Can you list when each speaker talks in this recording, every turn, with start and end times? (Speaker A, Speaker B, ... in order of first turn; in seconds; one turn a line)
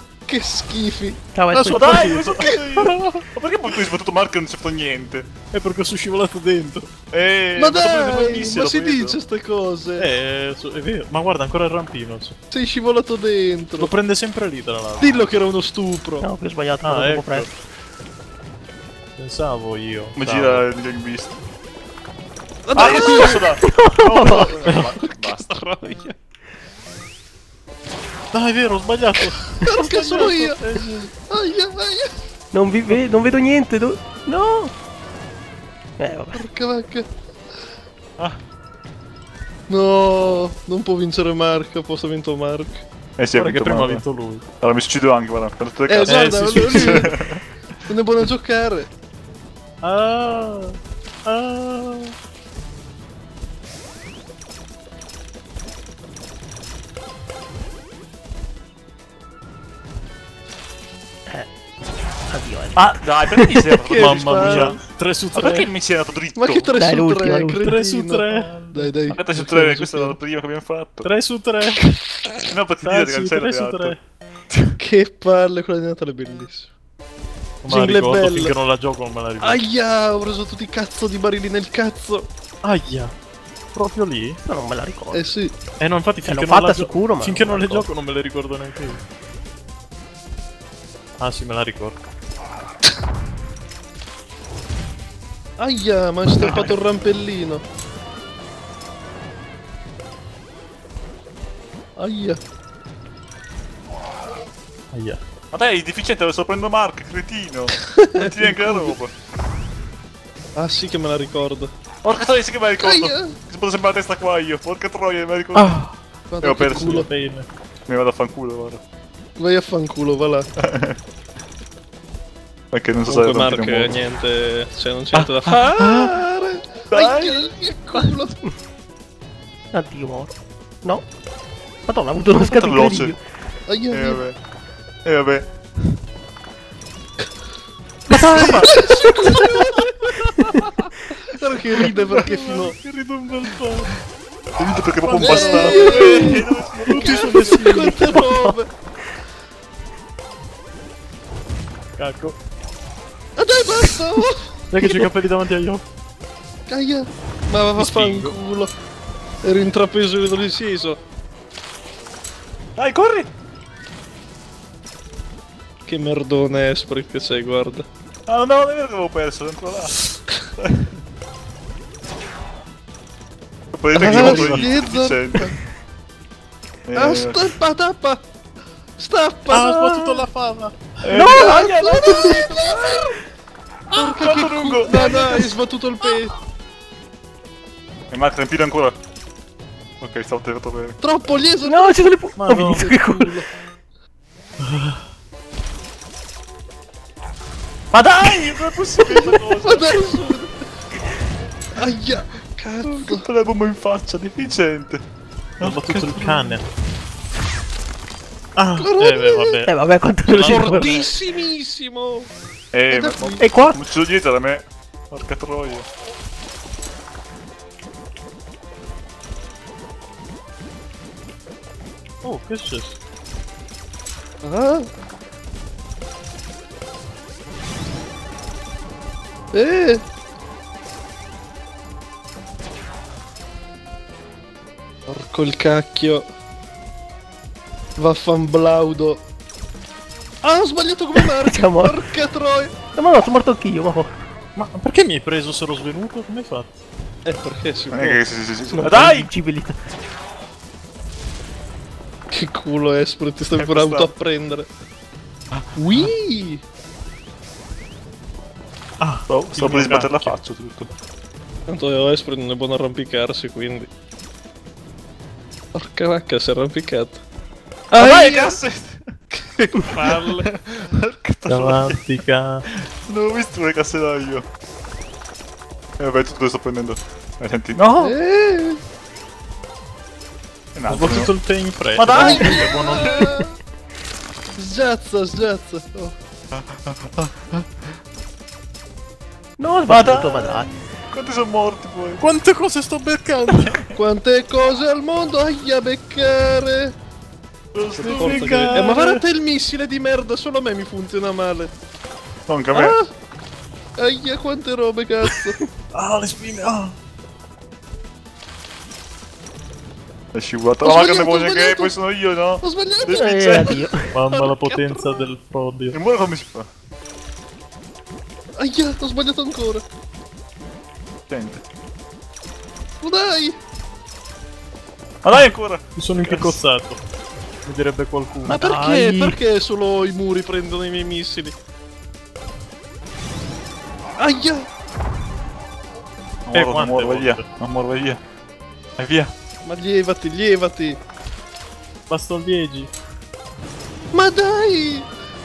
Speaker A: 0.3-1.2
Speaker B: 1.4-2.1
Speaker C: 1.5-3.2
Speaker D: 1.6-5.3
Speaker C: 5.5-6.9
Speaker D: 7.1-9.2
Speaker A: 7.6-10.1
Speaker C: 10.0-12.3
Speaker A: 12.5-13.9
Speaker C: 13.8-15.3
Speaker A: 15.0-16.3
Speaker B: 16.2-17.5
Speaker C: 16.8-17.5
Speaker C: 19.2-20.6
Speaker D: 20.2-21.4
Speaker A: 22.7-23.5
Speaker D: 22.7-25.6
Speaker B: 22.9-24.6
Speaker C: 24.6-24.9
Speaker A: 25.0-26.1
Speaker C: 28.3-31.1
Speaker A: 29.6-32.1
Speaker B: 32.5-34.7
Speaker B: 36.0-36.4
Speaker A: 36.3-37.1
Speaker A: 39.7-42.8
Speaker D: 43.2-44.0
Speaker C: 43.4-44.5
Speaker D: 44.6-47.4
Speaker A: 45.9-47.1
Speaker C: 46.1-47.1
Speaker A: 47.9-48.9
Speaker C: 49.8-52.1
Speaker B: 62.3-63.7
Speaker D: 62.8-64.8
Speaker A: 63.8-64.8
Speaker C: 64.0-65.7
Speaker D: 65.3-66.7
Speaker A: 66.4-70.2
Speaker B: 66.8-67.7
Speaker C: 67.6-68.7
Speaker D: 68.3-71.1
Speaker C: 71.0-71.8
Speaker D: 72.5-74.0
Speaker C: 72.8-74.0
Speaker A: 74.8-76.7
Speaker C: 77.6-79.6
Speaker A: 77.7-78.5
Speaker A: 79.4-82.3
Speaker C: 82.6-83.1
Speaker C: 83.8-84.4
Speaker B: 84.4-85.2
Speaker A: 85.1-85.5
Speaker C: 85.8-89.0
Speaker B: 86.2-87.9
Speaker C: 91.2-92.0
Speaker A: 95.6-97.6
Speaker A: 102.0-102.4
Speaker C: 104.9-105.2
Speaker D: 105.5-109.1
Speaker A: 108.0-108.9
Speaker A: 110.6-111.7
Speaker D: 112.0-115.8
Speaker A: 112.8-113.4
Speaker C: 115.5-116.0
Speaker A: 116.3-117.1
Speaker D: 116.4-117.0
Speaker C: 116.6-117.5
Speaker D: 117.9-118.8
Speaker A: 119.4-120.5
Speaker D: 120.6-121.0
Speaker D: 122.7-123.9
Speaker A: 123.1-128.4
Speaker D: 125.1-126.1
Speaker D: 126.9-127.5
Speaker B: 129.7-131.1
Speaker B: 131.9-133.2
Speaker D: 132.4-133.2
Speaker A: 133.7-134.2
Speaker D: 133.9-134.4
Speaker D: 135.1-135.9
Speaker C: 138.1-138.7
Speaker B: 138.1-139.6
Speaker D: 138.2-138.8
Speaker A: 138.6-140.1
Speaker B: 140.1-140.7
Speaker A: 141.3-142.8
Speaker C: 142.2-143.9
Speaker D: 144.6-147.6
Speaker C: 145.0-146.1
Speaker A: 145.2-148.7
Speaker B: 145.8-146.4
Speaker C: 146.9-148.0
Speaker B: 147.7-148.6
Speaker C: 152.0-152.3
Speaker A: 153.4-154.6
Speaker C: 154.7-155.8
Speaker A: 156.7-158.7
Speaker C: 157.8-158.4
Speaker A: 159.4-161.0
Speaker D: 162.8-163.3
Speaker A: 165.9-167.9
Speaker D: 168.3-170.0
Speaker D: 170.6-170.9
Speaker D: 173.7-175.6
Speaker A: 173.9-175.6
Speaker C: 174.2-174.7
Speaker D: 176.9-177.5
Speaker A: 176.9-178.2
Speaker A: 179.0-180.3
Speaker C: 179.5-181.0
Speaker D: 181.0-183.1
Speaker B: 181.1-182.5
Speaker A: 181.3-183.1
Speaker A: 183.9-186.3
Speaker D: 183.9-185.4
Speaker D: 188.1-189.0
Speaker D: 190.0-191.0
Speaker A: 191.0-192.0
Speaker B: 191.6-193.4
Speaker C: 192.4-192.9
Speaker A: 192.9-193.5
Speaker C: 194.6-195.0
Speaker D: 197.9-200.0
Speaker A: 199.6-200.5
Speaker A: 201.8-203.2
Speaker D: 202.8-205.0
Speaker D: 205.6-206.1
Speaker C: 205.6-206.7
Speaker A: 206.2-206.6
Speaker C: 208.6-209.7
Speaker A: 208.8-209.6
Speaker B: 209.7-211.0
Speaker C: 210.2-211.1
Speaker A: 210.4-212.3
Speaker D: 212.7-215.9
Speaker A: 212.9-213.4
Speaker B: 213.4-213.8
Speaker C: 222.2-222.9
Speaker A: 224.4-224.9
Speaker A: 229.5-230.0
Speaker A: 235.1-236.3
Speaker A: 238.0-239.2
Speaker A: 240.4-242.7
Speaker B: 241.2-242.0
Speaker B: 242.9-244.1
Speaker C: 244.6-246.8
Speaker A: 247.3-248.3
Speaker D: 247.9-249.3
Speaker B: 248.7-249.8
Speaker A: 252.3-254.7
Speaker D: 253.5-254.1
Speaker A: 255.8-256.6
Speaker C: 259.0-260.4
Speaker D: 259.3-260.9
Speaker A: 261.7-263.9
Speaker A: 265.7-267.2
Speaker A: 267.9-268.6
Speaker D: 268.0-269.1
Speaker A: 269.3-270.5
Speaker D: 270.0-272.0
Speaker C: 271.5-272.7
Speaker D: 272.7-274.5
Speaker D: 276.0-278.1
Speaker A: 278.0-278.8
Speaker D: 280.8-281.3
Speaker C: 280.9-283.4
Speaker D: 282.0-283.3
Speaker A: 282.1-283.5
Speaker A: 284.6-286.2
Speaker D: 286.5-287.7
Speaker B: 289.6-290.7
Speaker D: 289.9-292.2
Speaker C: 292.2-293.9
Speaker A: 293.9-296.9
Speaker D: 297.7-298.8
Speaker A: 298.0-301.7
Speaker C: 298.0-299.2
Speaker D: 302.5-303.0
Speaker A: 302.7-303.1
Speaker A: 304.0-305.6
Speaker C: 305.9-306.9
Speaker D: 310.3-313.8
Speaker A: 310.8-312.0
Speaker A: 312.6-315.3
Speaker B: 313.1-314.1
Speaker C: 314.1-316.0
Speaker D: 315.9-316.7
Speaker A: 318.6-319.8
Speaker D: 321.3-321.6
Speaker A: 323.0-323.6
Speaker D: 325.2-326.6
Speaker C: 325.3-327.0
Speaker C: 327.6-328.6
Speaker B: 328.4-329.4
Speaker A: 328.5-331.5
Speaker A: 334.2-334.7
Speaker D: 336.5-338.2
Speaker C: 336.5-337.4
Speaker D: 339.0-339.3
Speaker A: 339.6-341.0
Speaker C: 342.1-342.9
Speaker A: 344.1-345.1